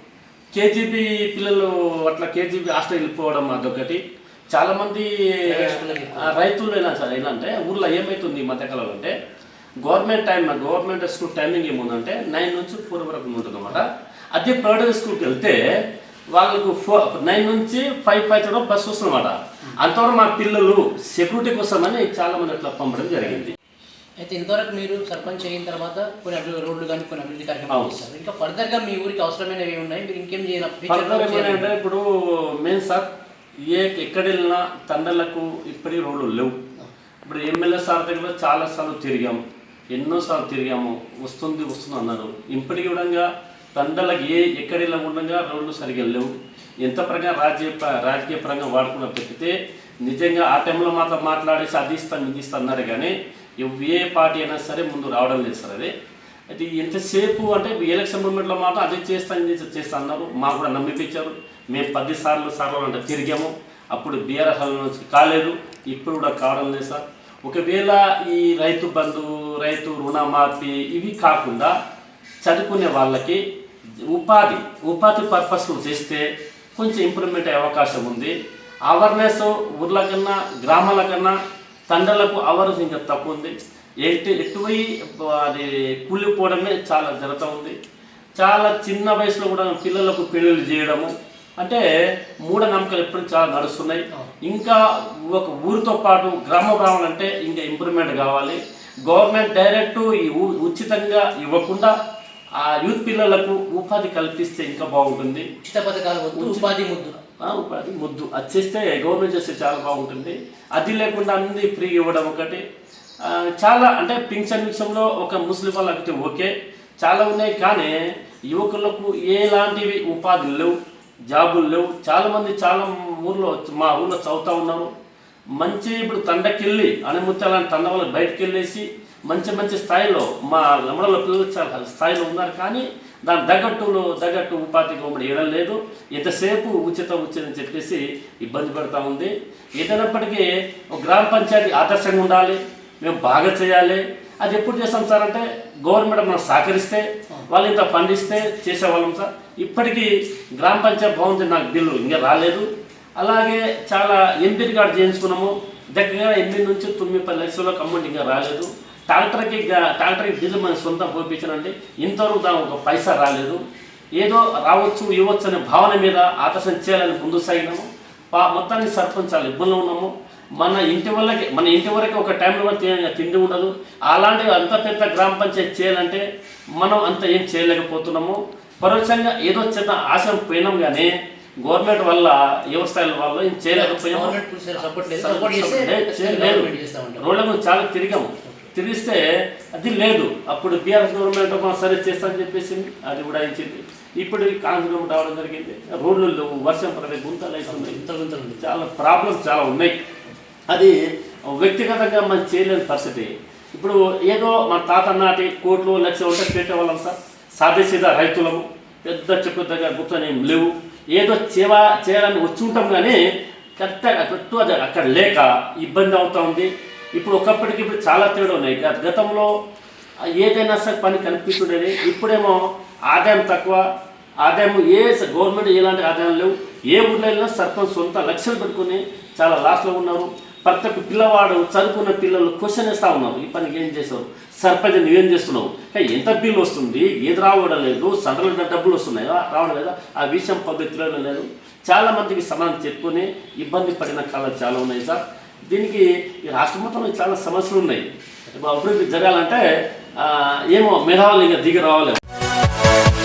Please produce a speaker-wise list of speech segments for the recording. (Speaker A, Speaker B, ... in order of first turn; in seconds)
Speaker A: 0.5-9.1, 9.8-15.6, 16.3-23.6, 27.7-28.0, 30.9-33.1, 33.6-36.6, 37.3-39.4, 39.9-55.9, 56.5-71.7, 72.4-73.4, 74.1-76.2, 76.8-78.3, 78.9-81.3, 81.9-87.8, 88.4-91.8, 92.5-101.9, 102.6-105.5, 106.4-106.7, 107.4-112.6, 113.2-117.9, 118.5-120.8, 121.3-124.9, 125.6-152.7, 153.2-163.6, 164.2-176.2, 176.8-181.1, 181.6-189.2, 189.8-198.0, 198.6-200.0, 200.7-201.0, 201.5-213.2, 213.8-219.5, 220.4-223.8, 224.4-249.6, 250.2-252.2
Speaker B: 5.5-6.3, 24.2-31.7, 105.6-107.2, 183.7-187.2, 188.4-188.7, 197.7-198.7